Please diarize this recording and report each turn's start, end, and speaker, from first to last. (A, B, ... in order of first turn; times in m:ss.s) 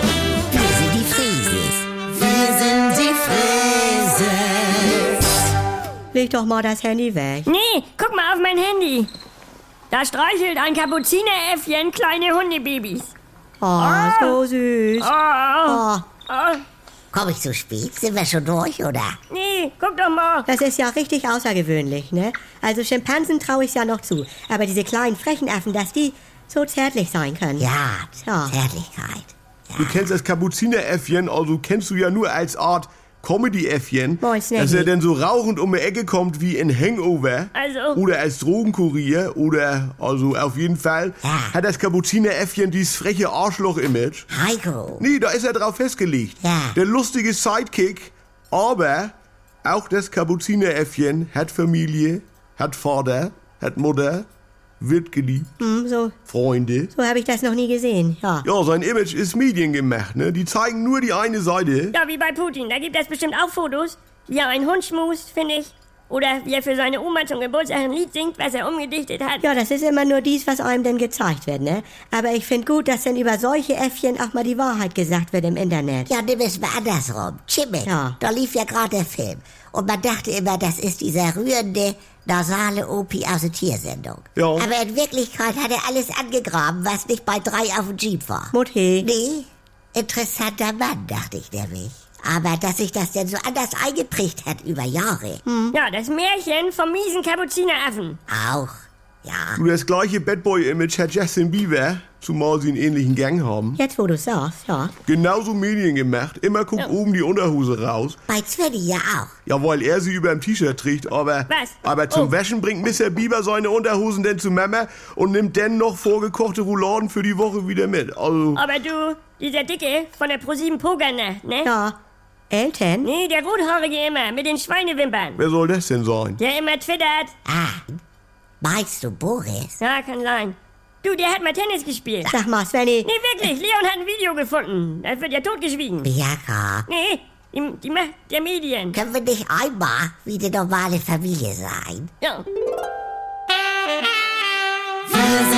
0:00.5-0:02.0 A
0:02.5-0:04.3 A
0:06.1-0:07.5 B
0:07.5-0:09.1 C
0:09.9-0:13.2 C
0:13.6-0:15.1 B
0:13.8-0:14.4 C
0:15.0-0:16.6 C
0:15.7-0:16.0 B
0:17.1-0:19.2 A
0:19.3-0:20.5 C
0:20.5-0:27.7 B
0:27.6-0:30.1 A
0:28.2-0:28.6 B
0:29.8-0:44.3 D
0:34.2-0:34.9 B
0:37.6-0:38.0 C
0:41.2-0:41.6 A
0:44.3-0:45.0 A
0:45.0-0:54.3 D
0:46.4-0:46.8 A
0:54.8-0:55.5 D
0:55.6-0:56.2 B
0:56.3-0:56.9 D
0:57.0-0:58.4 B
0:58.4-1:02.0 D
1:01.9-1:09.5 C
1:09.4-1:16.1 B
1:16.1-1:35.4 A
1:17.9-1:18.2 B
1:24.4-1:24.7 D
1:28.5-1:29.1 B
1:35.5-1:35.8 B
1:35.7-1:38.2 C
1:38.3-1:39.6 A
1:39.6-1:43.8 D
1:43.8-1:44.9 B
1:45.1-1:48.2 D
1:48.3-1:49.3 A
1:49.5-1:58.6 D
1:51.5-1:52.3 C
1:58.6-2:01.7 C
2:01.6-2:02.0 B
2:02.5-2:03.1 B
2:03.0-2:05.4 C
2:05.4-2:06.4 D
2:06.4-2:07.3 C
2:07.5-2:08.0 A
2:08.6-2:09.8 A
2:09.8-2:12.4 C
2:12.3-2:13.1 B
2:13.0-2:16.1 C
2:16.0-2:16.9 A
2:16.9-2:19.0 C
2:18.9-2:22.1 A